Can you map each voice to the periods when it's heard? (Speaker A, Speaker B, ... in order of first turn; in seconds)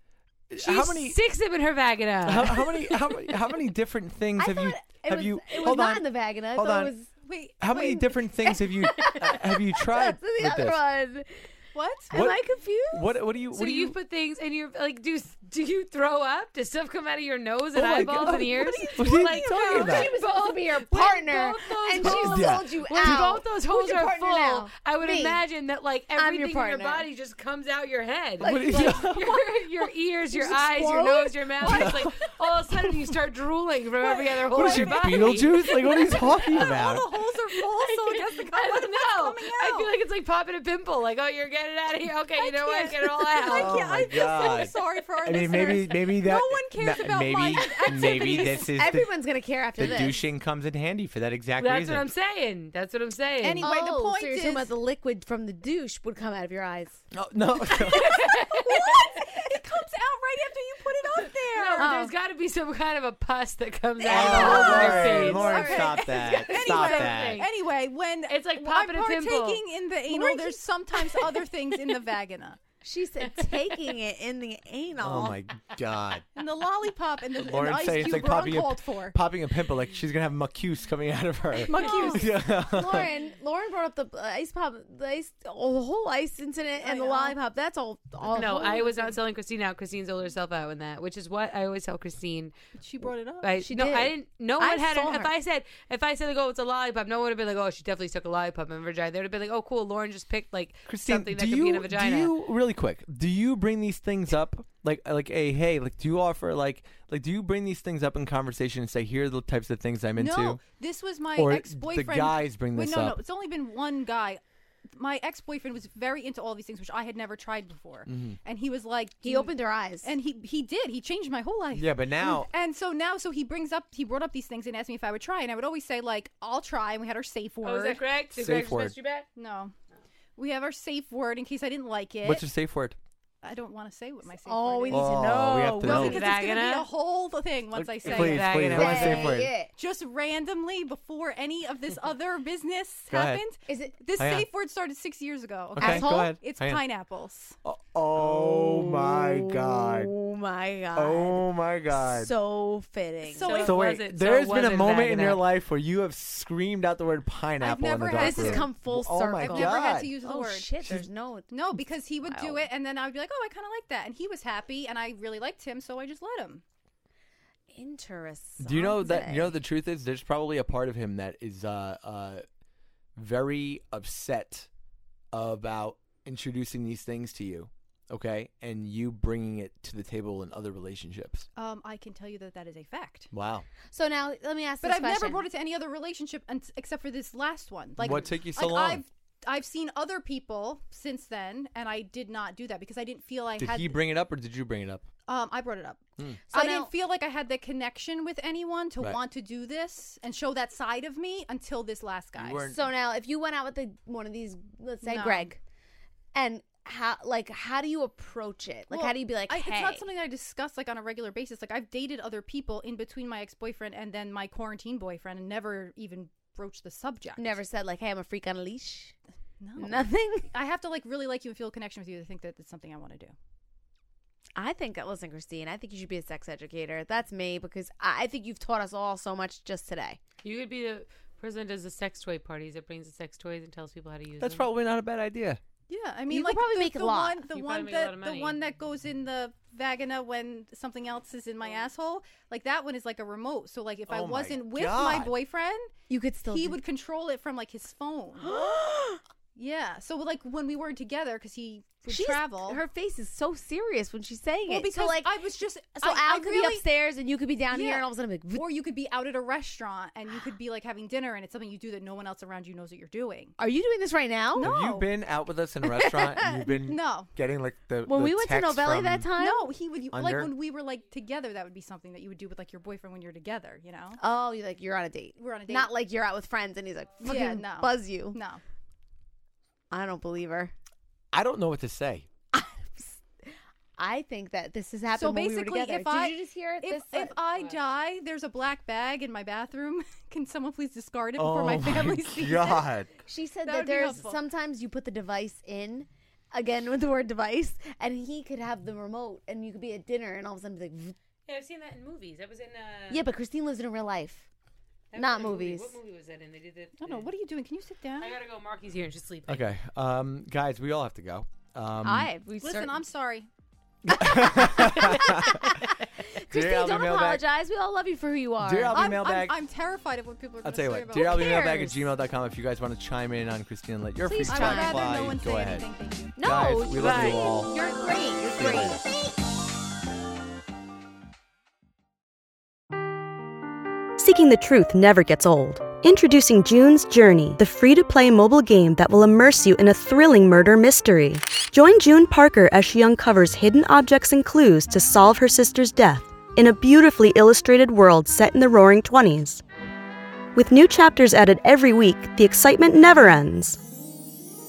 Speaker A: 0.5-1.2, 2.3-6.9, 7.6-10.8, 12.1-14.0, 17.8-20.1, 22.0-23.2, 28.4-29.2, 31.6-32.1, 34.5-37.0, 43.5-49.1, 49.8-52.1, 57.1-58.1, 64.1-67.4, 75.0-76.3, 77.4-83.1, 100.9-110.6, 111.3-113.2, 118.1-118.4, 121.7-122.5, 128.3-128.9, 132.2-133.0, 134.9-136.2, 137.7-139.5, 143.1-143.4, 144.2-144.5, 145.7-146.8, 147.7-150.1, 150.9-152.3, 153.6-160.1, 168.6-172.4, 173.2-174.7, 175.3-181.5, 183.3-183.7, 188.0-189.0, 193.6-195.1, 202.4-202.8, 234.4-235.6, 244.1-245.3, 264.6-269.3, 270.1-270.5, 281.3-282.3, 291.4-293.1, 309.5-312.3, 314.1-315.8, 316.5-317.4, 318.6-319.6, 320.6-325.9, 326.4-327.7, 328.6-329.0
Speaker B: 0.6-2.7, 13.5-36.9, 37.5-44.0, 51.6-53.7, 57.8-58.8, 61.5-65.7, 66.5-67.5, 68.3-69.6, 88.3-92.5, 93.4-102.3, 127.6-129.3, 135.9-136.9, 138.1-139.3, 153.4-155.4, 230.4-234.7, 237.5-238.6, 287.5-287.8, 301.5-303.3, 305.1-307.3, 308.2-309.7, 326.9-327.5
Speaker C: 4.4-7.1, 8.4-11.5, 12.1-13.2, 18.5-25.4, 26.2-27.1, 28.4-29.4, 30.3-32.1, 47.9-50.2, 53.6-57.0, 58.8-59.5, 61.8-62.1, 64.1-66.2, 70.1-71.4, 72.8-75.4, 81.9-89.1, 93.6-95.3, 119.2-120.2, 134.4-136.2, 138.7-139.7, 143.7-144.0, 145.8-146.4, 148.2-153.5, 158.1-162.7, 167.7-169.6, 183.9-185.5, 196.5-196.9, 202.7-205.6, 206.3-210.1, 217.4-219.2, 219.8-220.5, 224.6-230.2, 236.3-237.4, 246.1-246.8, 248.4-249.2, 252.1-255.4, 256.0-258.6, 263.6-264.7, 265.8-266.7, 268.1-269.7, 274.2-278.4, 279.9-280.7, 282.5-287.3, 293.3-301.2, 303.1-304.5, 305.1-306.0, 312.0-313.0, 314.1-319.0, 321.1-322.0, 324.5-325.0, 326.4-329.1
Speaker D: 7.2-8.6, 11.7-12.1, 34.1-39.9, 42.4-48.8, 49.8-50.1, 53.4-54.7, 57.7-62.0, 64.1-72.6, 76.4-79.2, 81.6-82.4, 86.8-87.4, 92.7-93.5, 110.2-114.4, 114.9-119.5, 120.0-128.0, 129.4-129.7, 130.4-132.4, 133.4-147.6, 153.2-154.0, 157.6-158.8, 159.4-160.7, 161.5-166.6, 181.6-183.3, 184.8-194.0, 195.3-202.7, 205.0-205.5, 208.9-217.6, 219.6-223.3, 235.9-245.9, 246.5-248.8, 249.6-252.8, 254.7-256.8, 257.7-263.6, 264.6-265.1, 266.9-267.3, 269.4-274.2, 275.4-275.9, 277.2-278.6, 285.1-292.8, 293.6-294.4, 307.0-308.3, 312.6-313.5, 318.9-322.0, 324.2-326.4, 327.7-329.0
Speaker E: 334.2-349.6, 350.6-353.8